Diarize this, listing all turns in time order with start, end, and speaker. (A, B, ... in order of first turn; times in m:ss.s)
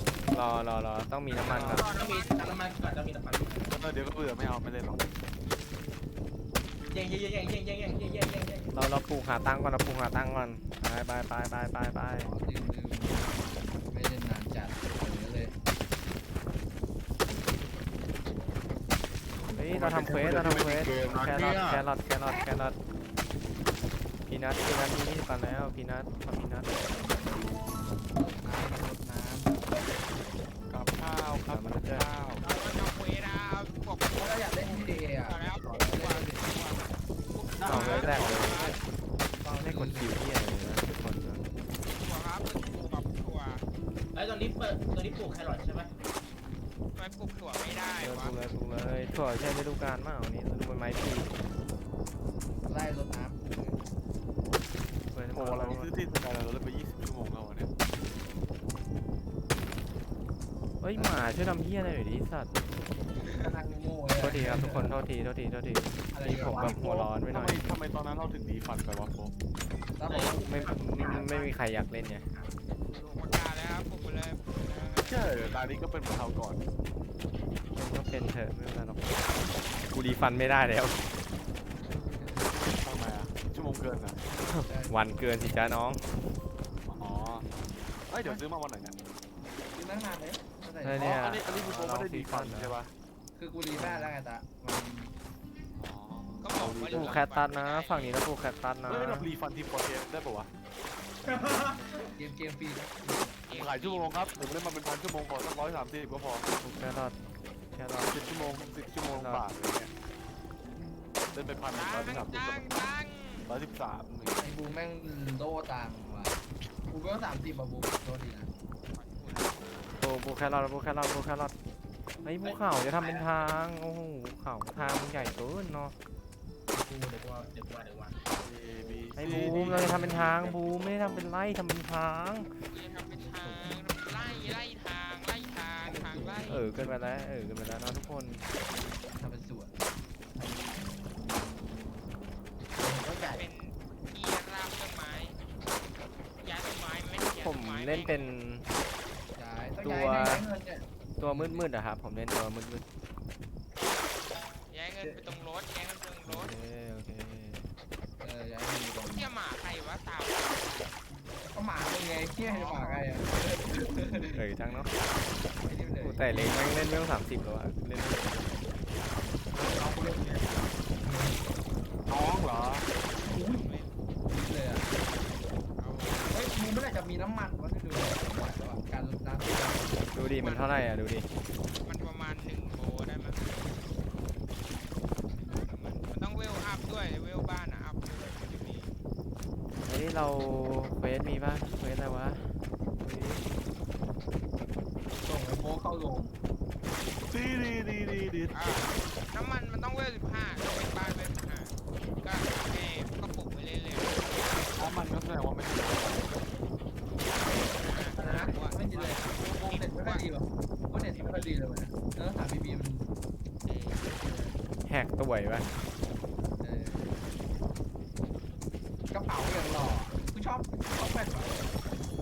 0:00.3-0:01.9 A
0:01.5-0:02.6 B
0:01.5-0:01.9 C
0:01.7-0:03.8 D
0:03.7-0:05.1 C
0:06.9-0:08.8 D
0:08.7-0:12.3 A
0:12.2-0:15.5 E
0:19.5-0:22.8 A
0:19.7-0:21.9 C
0:24.3-0:27.2 A
0:28.2-0:30.2 E
0:30.7-0:32.5 C
0:31.5-0:32.1 A
0:32.4-0:38.8 B
0:34.2-0:36.6 E
0:37.6-0:38.5 C
0:37.7-0:38.8 A
0:39.4-0:40.2 E
0:39.6-0:41.5 A
0:41.9-0:43.6 B
0:44.1-0:45.9 D
0:47.0-0:48.3 B
0:48.0-0:51.4 A
0:52.6-0:53.8 E
0:55.1-0:56.0 A
0:55.4-0:57.7 C
1:00.8-1:02.5 A
1:01.0-1:01.2 E
1:03.2-1:03.5 B
1:03.3-1:05.0 E
1:04.2-1:07.6 A
1:06.1-1:06.8 E
1:06.6-1:09.3 C
1:10.0-1:11.6 E
1:10.0-1:10.9 D
1:10.4-1:12.3 A
1:12.9-1:15.7 B
1:15.0-1:16.6 C
1:17.7-1:19.2 A
1:19.9-1:21.0 A
1:21.9-1:22.6 E
1:22.8-1:24.2 C
1:24.4-1:26.1 A
1:24.7-1:25.0 E
1:26.8-1:27.5 C
1:28.1-1:29.0 C
1:29.7-1:31.2 E
1:30.8-1:32.8 A
1:31.0-1:32.9 C
1:33.4-1:35.1 E
1:33.7-1:34.2 A
1:35.8-1:37.3 C
1:36.4-1:38.2 B
1:36.9-1:39.3 A
1:38.9-1:40.5 C
1:41.2-1:42.1 D
1:42.2-1:43.5 E
1:43.5-1:44.6 B
1:43.5-1:46.5 C
1:46.6-1:47.2 A
1:47.7-1:49.5 A
1:48.0-1:49.9 C
1:51.3-1:52.9 C
1:51.7-1:53.5 B
1:53.5-1:54.5 C
1:54.4-1:58.5 E
1:58.9-1:59.6 B
2:00.0-2:01.5 A
2:02.2-2:06.0 A
2:02.4-2:03.4 D
2:06.7-2:08.2 D
2:08.4-2:10.9 C
2:09.2-2:12.5 A
2:09.3-2:10.2 E
2:12.7-2:16.7 B
2:15.8-2:16.7 E
2:16.4-2:18.5 A
2:19.2-2:19.8 E
2:20.4-2:20.9 E
2:22.8-2:23.5 E
2:23.2-2:25.4 B
2:26.4-2:28.3 B
2:27.4-2:28.7 A
2:29.3-2:31.7 E
2:29.8-2:30.5 A
2:31.2-2:32.8 A
2:34.7-2:36.5 B
2:35.0-2:35.4 E
2:36.3-2:37.7 A
2:38.2-2:39.3 E
2:39.0-2:41.0 B
2:41.4-2:44.5 E
2:42.4-2:43.1 B
2:44.3-2:44.9 A
2:45.6-2:47.1 E
2:46.0-2:48.7 A
2:49.5-2:51.4 E
2:52.1-2:52.9 C
2:53.1-2:53.7 E
2:53.4-2:54.0 B
2:54.3-2:54.9 E
2:55.8-2:56.4 B
2:56.3-3:00.1 E
3:00.1-3:01.3 A
3:00.3-3:00.8 B
3:01.8-3:03.7 B
3:05.4-3:08.9 B
3:09.8-3:13.6 A
3:15.2-3:16.3 E
3:17.3-3:18.9 C
3:18.5-3:24.7 B
3:24.8-3:26.3 C
3:27.1-3:30.3 B
3:27.4-3:33.1 E
3:30.9-3:31.6 B
3:33.6-3:34.1 B
3:34.1-3:34.6 E
3:34.9-3:35.8 A
3:36.6-3:37.2 E
3:39.1-3:41.7 E